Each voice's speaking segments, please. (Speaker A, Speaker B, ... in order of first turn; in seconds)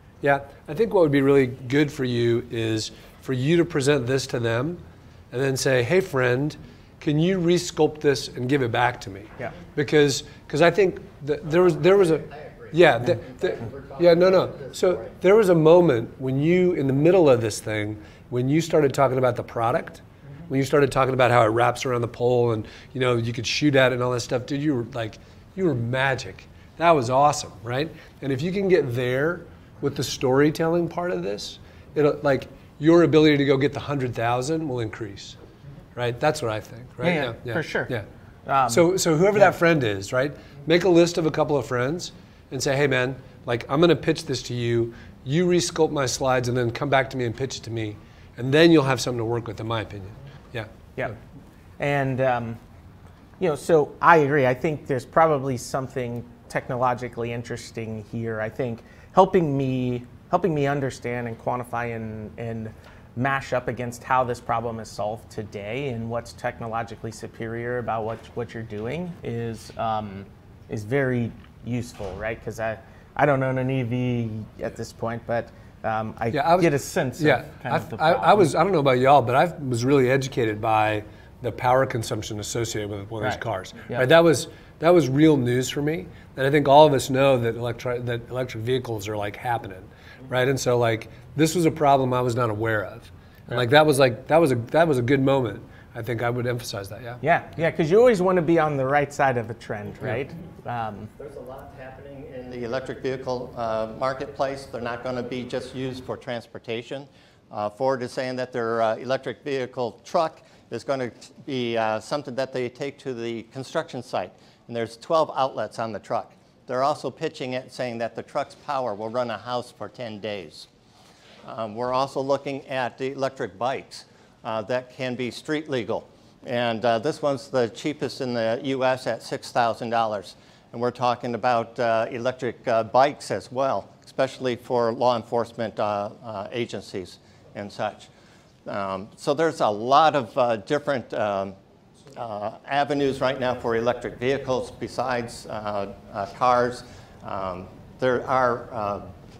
Speaker A: 0.2-35.4, 35.9-38.0, 38.7-50.7, 76.3-97.2
Speaker B: 11.5-15.1, 101.1-120.7, 121.4-138.1, 138.7-141.5, 142.1-149.1
Speaker C: 37.0-37.9, 38.5-39.5, 51.8-52.6, 53.4-78.5, 83.2-84.1, 97.2-101.1